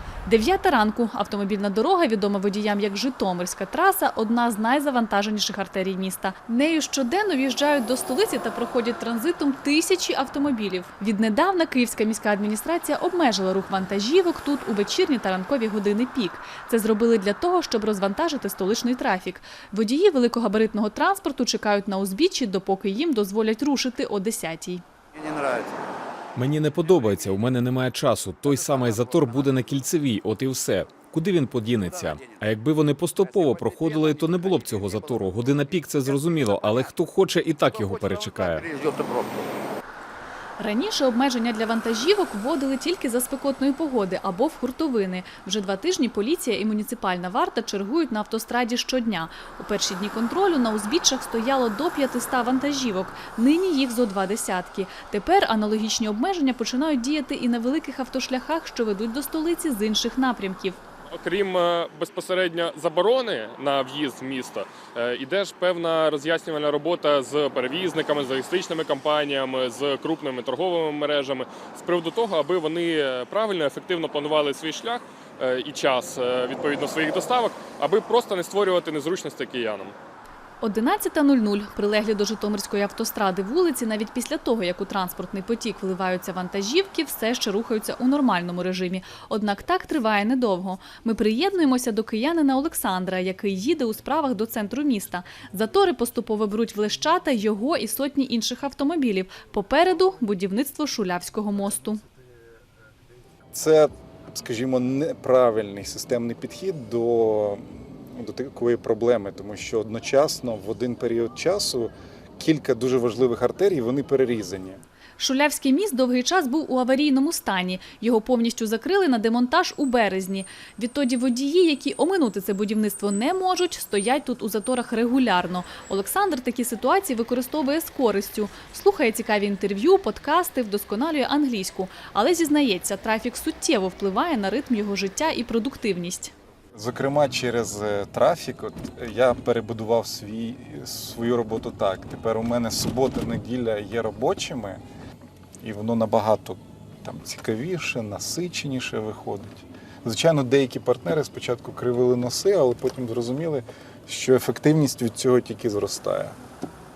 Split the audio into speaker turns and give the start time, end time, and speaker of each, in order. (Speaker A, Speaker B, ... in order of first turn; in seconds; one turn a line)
Speaker A: 0.2-24.8
Speaker B: 26.4-38.8
Speaker A: 40.6-60.8
Speaker C: 61.1-79.9
Speaker A: 80.6-102.0
Speaker D: 103.5-114.8
Speaker A: 115.2-136.3
Speaker D: 136.8-144.8
Speaker D: 145.6-156.3